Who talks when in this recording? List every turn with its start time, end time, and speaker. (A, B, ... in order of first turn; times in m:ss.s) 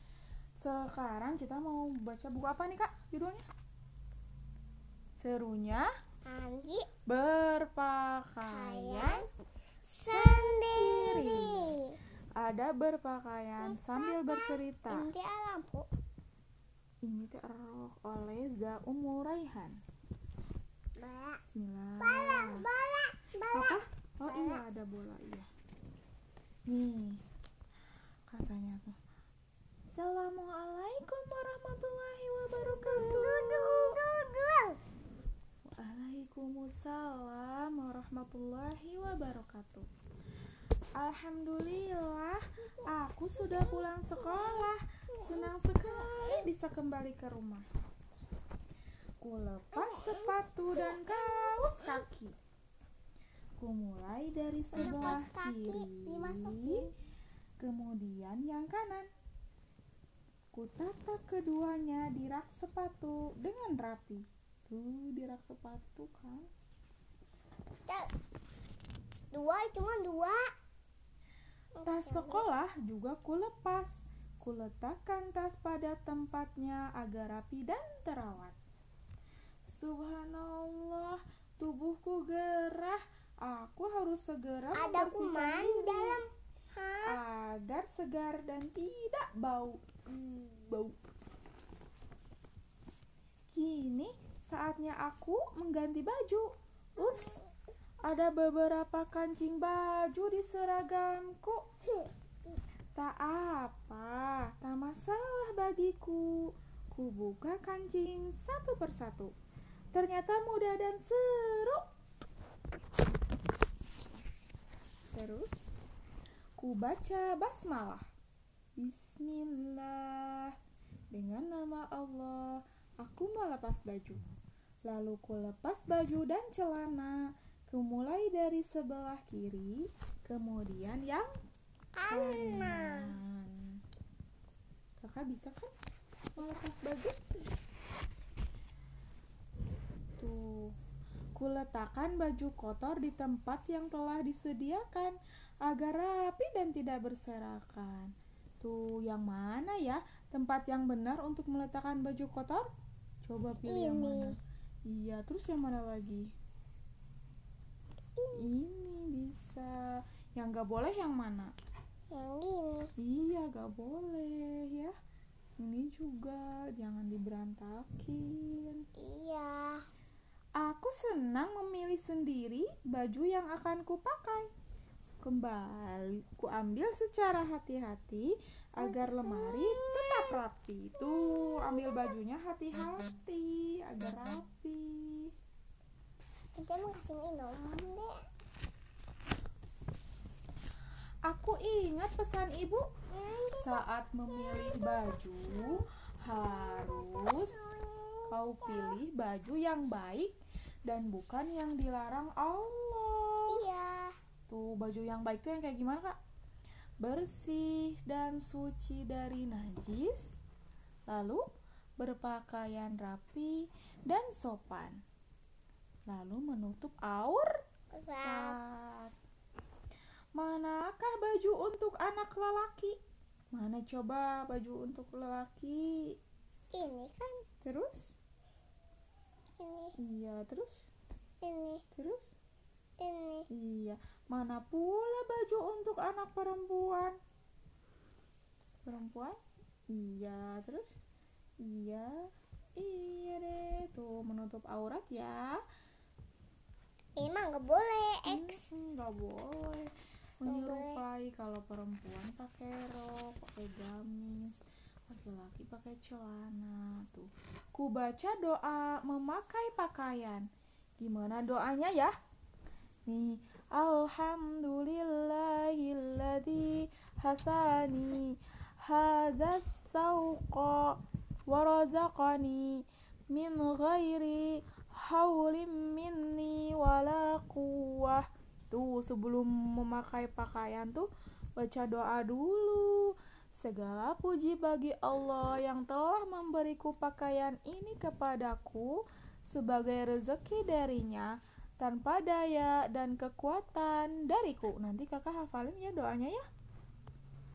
0:00.6-0:03.4 A
0:05.2-0:05.9 A
0:06.2-0:06.9 B
0:07.1-0:09.2 A
0:08.5-0:09.2 B
0:09.8-0:12.0 B
0:10.0-0:11.7 A
0:12.4-0:15.1 A
0:13.6-0:15.8 B
0:17.0-0:19.8 A
0:21.0-0:21.4 B
0:21.4-0:22.6 A
0:22.0-0:24.6 B
0:23.5-0:25.5 A
0:26.7-0:27.2 A
0:28.3-0:29.0 A
0:29.9-0:34.0 A
0:32.6-0:34.8 B
0:35.8-0:39.9 A
0:41.0-0:47.6 A
0:42.8-0:46.4 B
0:49.2-0:52.3 A
0:49.7-0:52.0 B
0:53.6-0:56.8 A
0:54.7-0:56.9 B
0:57.6-0:59.1 A
1:00.5-1:06.5 A
1:09.3-1:10.4 B
1:11.8-1:12.4 B
1:11.8-1:18.6 A
1:19.6-1:26.2 A
1:24.7-1:27.1 B
1:27.0-1:30.9 A
1:33.5-1:37.4 A
1:37.0-1:37.5 B
1:38.0-1:41.6 A
1:41.9-1:42.6 B
1:43.0-1:46.3 A
1:46.9-1:49.3 A
1:49.9-1:51.8 A
1:55.1-1:55.7 A
1:56.6-1:58.0 A
1:58.8-2:00.5 A
2:01.1-2:04.2 A
2:04.9-2:07.2 A
2:07.7-2:11.3 A
2:12.0-2:13.1 B
2:12.1-2:13.5 A
2:15.0-2:15.7 A
2:16.4-2:17.2 A
2:20.2-2:20.7 A
2:21.4-2:28.1 A
2:28.6-2:32.6 A
2:33.2-2:34.4 A
2:33.6-2:34.3 B
2:34.9-2:36.3 A
2:38.2-2:38.4 B
2:38.4-2:39.7 A
2:40.4-2:41.5 A
2:42.1-2:42.9 B
2:43.0-2:44.9 A
2:45.6-2:48.8 A
2:49.0-2:49.6 B
2:50.6-2:54.5 A
2:55.2-3:05.3 A
2:58.8-3:00.3 B
3:01.0-3:02.1 B
3:06.5-3:08.1 B
3:11.2-3:12.9 A
3:13.1-3:13.8 B
3:13.6-3:17.6 A
3:14.3-3:15.8 B
3:16.3-3:19.0 B
3:18.3-3:20.3 A
3:20.8-3:23.6 A
3:23.5-3:24.1 B
3:24.5-3:26.2 A
3:27.0-3:30.3 A
3:31.1-3:31.4 A
3:32.0-3:35.0 A
3:36.1-3:37.5 A
3:37.9-3:38.6 B
3:38.2-3:39.1 A
3:40.4-3:42.9 A
3:43.5-3:46.0 A
3:46.7-3:47.4 B
3:47.6-3:48.1 A
3:49.6-3:49.9 B
3:50.0-3:50.8 A
3:51.4-3:51.8 B
3:51.9-3:52.3 A
3:53.0-3:53.5 B
3:53.5-3:57.1 A
3:58.8-3:59.4 A
3:59.9-4:01.0 A
4:01.6-4:02.1 A
4:02.8-4:05.4 A
4:07.2-4:08.6 B
4:08.3-4:09.9 A
4:10.4-4:20.4 A
4:10.4-4:11.0 B
4:21.0-4:22.1 A
4:23.1-4:28.3 A
4:28.8-4:31.0 A
4:31.5-4:32.8 A
4:33.3-4:56.4 A